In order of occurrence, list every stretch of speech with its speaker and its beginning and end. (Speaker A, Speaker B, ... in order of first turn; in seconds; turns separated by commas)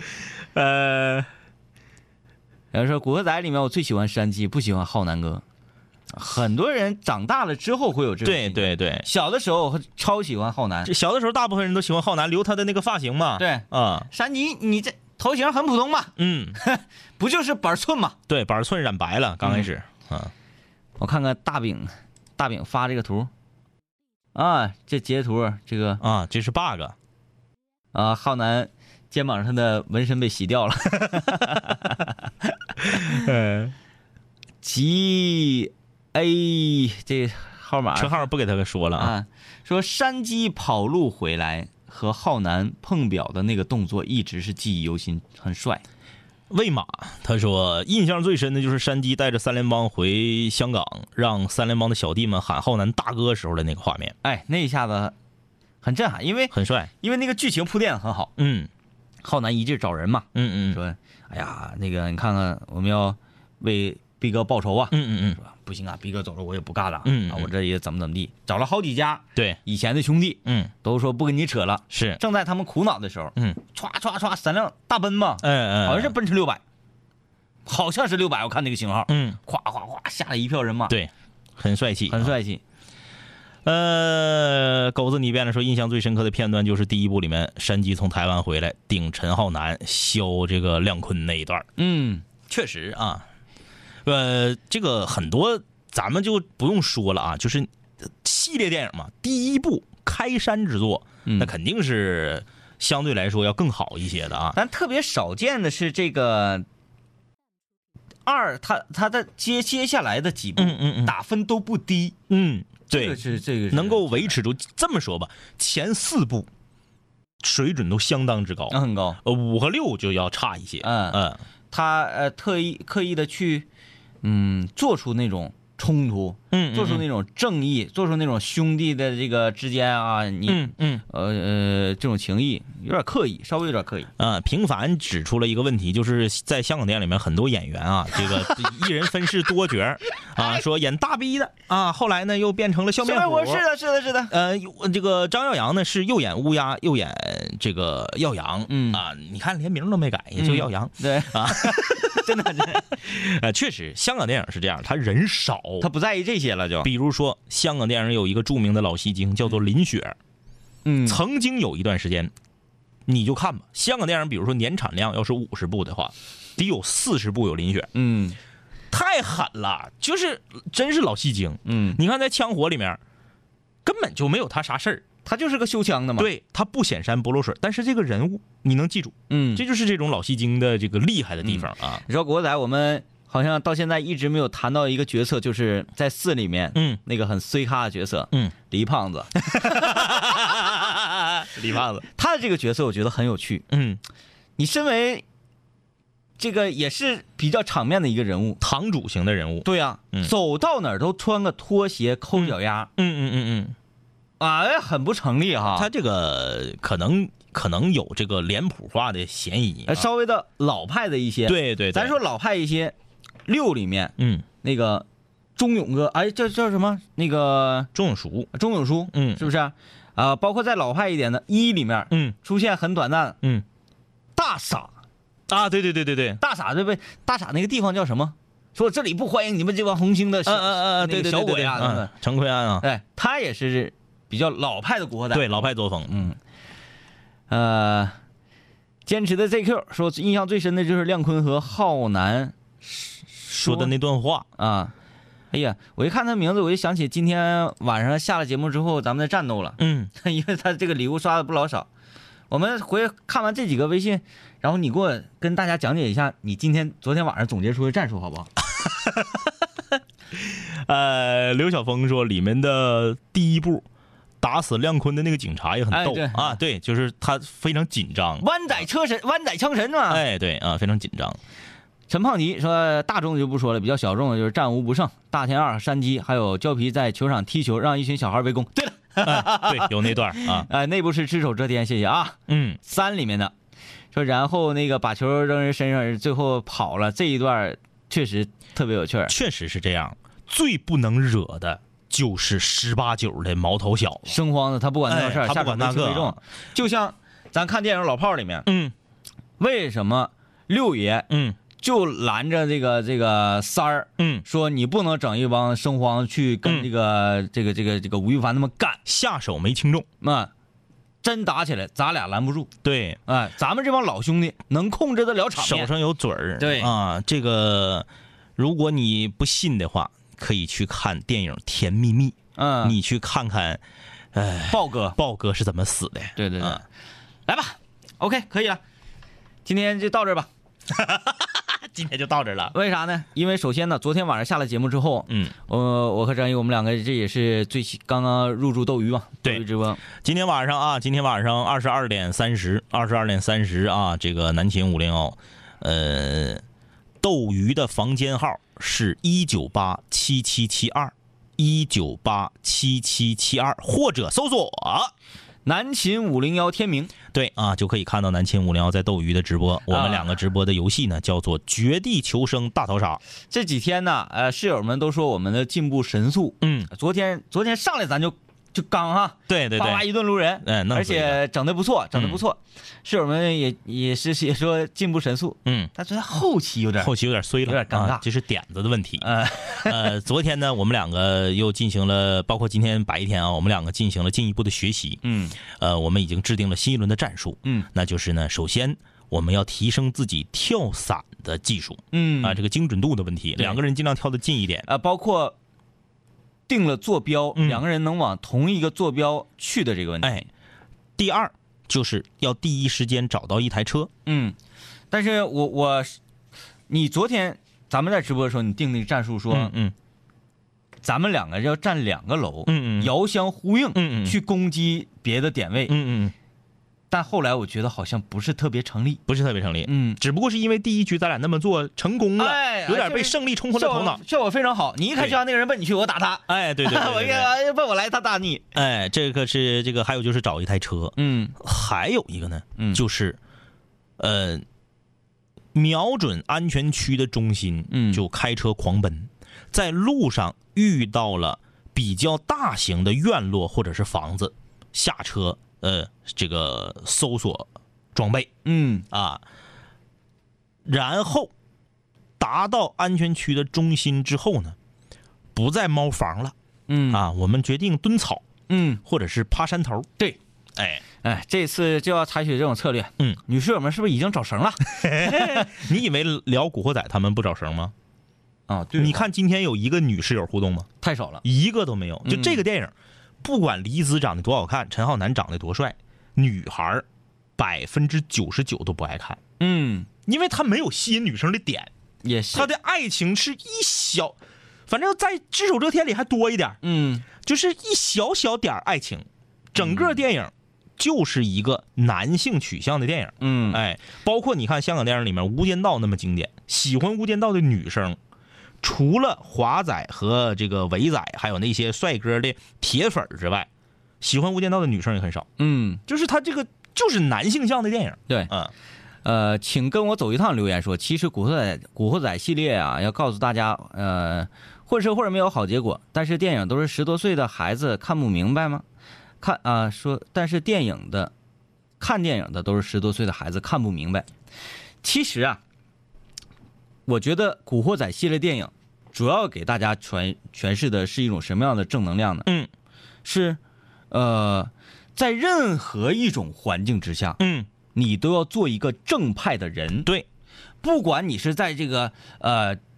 Speaker A: 0.2-1.3, Speaker B: 2.7-5.4, Speaker B: 6.1-10.9, Speaker A: 8.2-9.1, Speaker A: 10.8-14.1, Speaker B: 13.4-18.2, Speaker A: 16.2-16.6, Speaker A: 18.3-20.3, Speaker B: 21.0-23.3, Speaker B: 24.4-26.0, Speaker A: 26.0-26.9, Speaker B: 27.9-32.1, Speaker A: 32.9-33.7, Speaker B: 34.6-38.3, Speaker A: 38.0-39.1, Speaker B: 39.0-45.8, Speaker A: 46.5-54.2, Speaker B: 54.2-55.1, Speaker B: 55.8-58.3, Speaker A: 56.5-56.9, Speaker A: 58.4-58.7, Speaker B: 59.2-76.6, Speaker A: 60.3-60.8, Speaker A: 64.9-65.4, Speaker A: 67.0-67.5, Speaker A: 70.5-70.7, Speaker A: 71.9-72.2, Speaker A: 75.4-76.2, Speaker B: 77.7-81.0, Speaker A: 79.1-79.4, Speaker A: 80.9-82.3, Speaker B: 82.1-82.6, Speaker A: 83.7-91.7, Speaker B: 91.8-92.2, Speaker A: 92.4-93.3, Speaker A: 94.0-104.6, Speaker B: 101.2-101.5, Speaker B: 104.5-106.7, Speaker B: 108.2-112.2, Speaker A: 110.6-111.1, Speaker A: 112.3-116.5, Speaker B: 112.9-114.3, Speaker A: 117.4-121.4, Speaker B: 118.7-119.2, Speaker B: 120.8-123.7, Speaker B: 124.2-134.1, Speaker A: 126.5-127.1, Speaker A: 130.5-131.0, Speaker A: 134.2-143.7, Speaker B: 143.0-144.3, Speaker A: 144.3-155.9, Speaker B: 148.7-149.0, Speaker B: 150.4-152.9, Speaker B: 155.8-156.9, Speaker A: 156.8-160.2, Speaker B: 160.8-161.2, Speaker A: 161.1-162.3, Speaker A: 163.1-167.9, Speaker B: 167.9-168.4, Speaker A: 168.9-173.0, Speaker B: 171.7-172.0, Speaker A: 173.8-175.1, Speaker B: 175.2-176.3, Speaker A: 176.2-182.0, Speaker B: 179.3-179.6, Speaker B: 181.4-190.7, Speaker A: 186.8-187.0, Speaker A: 189.6-192.1, Speaker B: 192.2-193.7, Speaker A: 193.7-194.0, Speaker B: 194.6-195.2, Speaker B: 196.4-198.6, Speaker A: 198.6-200.3, Speaker B: 199.7-202.9, Speaker A: 202.4-203.8, Speaker B: 204.4-205.9, Speaker A: 205.8-210.1, Speaker B: 209.9-212.9, Speaker A: 211.5-212.2, Speaker B: 213.5-215.1, Speaker A: 214.2-214.4, Speaker B: 215.6-217.9, Speaker A: 217.9-218.5, Speaker B: 218.5-223.4, Speaker A: 219.1-219.5, Speaker A: 222.1-222.4, Speaker B: 224.4-224.9, Speaker A: 225.5-226.4, Speaker B: 226.4-232.1, Speaker A: 230.5-232.8, Speaker B: 232.8-236.4, Speaker A: 235.3-236.2, Speaker B: 237.5-238.2, Speaker B: 239.1-243.9, Speaker A: 243.6-244.5, Speaker B: 244.6-244.9, Speaker B: 245.5-251.9, Speaker A: 249.8-250.1, Speaker B: 252.5-258.5, Speaker A: 258.8-259.3, Speaker A: 260.4-263.9, Speaker A: 264.4-268.8, Speaker B: 265.9-266.6, Speaker B: 268.4-270.2, Speaker A: 270.1-271.4, Speaker B: 272.1-283.5, Speaker A: 279.2-280.7, Speaker A: 282.5-282.8, Speaker B: 284.1-289.3, Speaker A: 289.3-294.4, Speaker B: 294.3-298.7, Speaker A: 295.1-296.4, Speaker A: 298.7-298.9, Speaker B: 299.6-309.0, Speaker A: 301.3-301.6, Speaker A: 304.2-304.5, Speaker A: 309.1-310.1, Speaker B: 310.2-310.5, Speaker B: 311.2-312.7, Speaker A: 312.8-313.2, Speaker B: 313.3-315.9, Speaker A: 315.6-323.8, Speaker B: 316.6-316.9, Speaker B: 322.6-323.0, Speaker A: 324.3-326.8, Speaker B: 324.7-325.2, Speaker B: 326.4-326.8, Speaker B: 327.5-328.8, Speaker B: 329.7-330.5, Speaker A: 330.9-332.8, Speaker B: 332.7-340.0, Speaker A: 335.3-335.5, Speaker A: 340.2-346.6, Speaker A: 347.2-355.1, Speaker B: 355.6-357.1, Speaker A: 357.3-363.2, Speaker B: 359.9-360.3, Speaker B: 363.5-377.1, Speaker A: 366.6-366.9, Speaker A: 369.5-370.1, Speaker A: 370.6-371.4, Speaker A: 372.1-372.4, Speaker A: 375.6-375.9, Speaker A: 377.0-394.9, Speaker B: 377.6-378.2, Speaker B: 379.2-380.1, Speaker B: 385.2-385.6, Speaker B: 392.1-392.6, Speaker B: 394.9-395.6, Speaker B: 396.7-400.5, Speaker A: 397.6-397.8, Speaker A: 401.2-404.1, Speaker B: 404.3-404.6, Speaker B: 405.1-406.2, Speaker B: 406.9-409.7, Speaker A: 409.5-409.9, Speaker B: 411.0-415.9, Speaker A: 412.7-413.1, Speaker A: 413.9-414.4, Speaker A: 415.9-416.3, Speaker B: 417.1-419.2, Speaker A: 419.3-424.2, Speaker B: 419.9-420.2, Speaker B: 422.4-428.7, Speaker A: 425.1-425.4, Speaker A: 426.5-427.5, Speaker A: 428.8-433.4, Speaker B: 431.2-431.5, Speaker A: 434.2-434.6, Speaker A: 435.8-448.5, Speaker B: 437.9-438.2, Speaker B: 448.6-449.1, Speaker A: 449.1-449.4, Speaker A: 450.9-451.5, Speaker A: 452.4-454.8, Speaker A: 455.6-456.5, Speaker B: 456.9-457.2, Speaker A: 457.1-458.5, Speaker B: 458.7-459.0, Speaker A: 459.0-460.1, Speaker A: 460.8-461.0, Speaker B: 461.2-465.7, Speaker A: 464.9-467.9, Speaker B: 468.7-469.3, Speaker A: 469.0-470.9, Speaker B: 471.0-471.4, Speaker A: 471.4-477.1, Speaker B: 472.3-472.6, Speaker A: 477.6-479.4, Speaker B: 479.6-480.1, Speaker A: 480.3-481.9, Speaker B: 482.2-482.7, Speaker A: 482.5-484.4, Speaker A: 484.9-486.8, Speaker B: 486.8-487.2, Speaker A: 487.4-498.2, Speaker B: 489.8-490.2, Speaker B: 493.4-493.8, Speaker A: 498.8-503.7, Speaker A: 504.2-505.5, Speaker B: 505.6-506.0, Speaker A: 506.1-508.7, Speaker B: 509.2-518.8, Speaker B: 519.4-521.3, Speaker B: 522.0-524.3, Speaker B: 525.0-525.6, Speaker B: 527.1-532.5, Speaker B: 533.2-533.6, Speaker B: 534.1-537.4, Speaker A: 537.4-537.7, Speaker B: 537.9-540.1, Speaker B: 540.8-542.8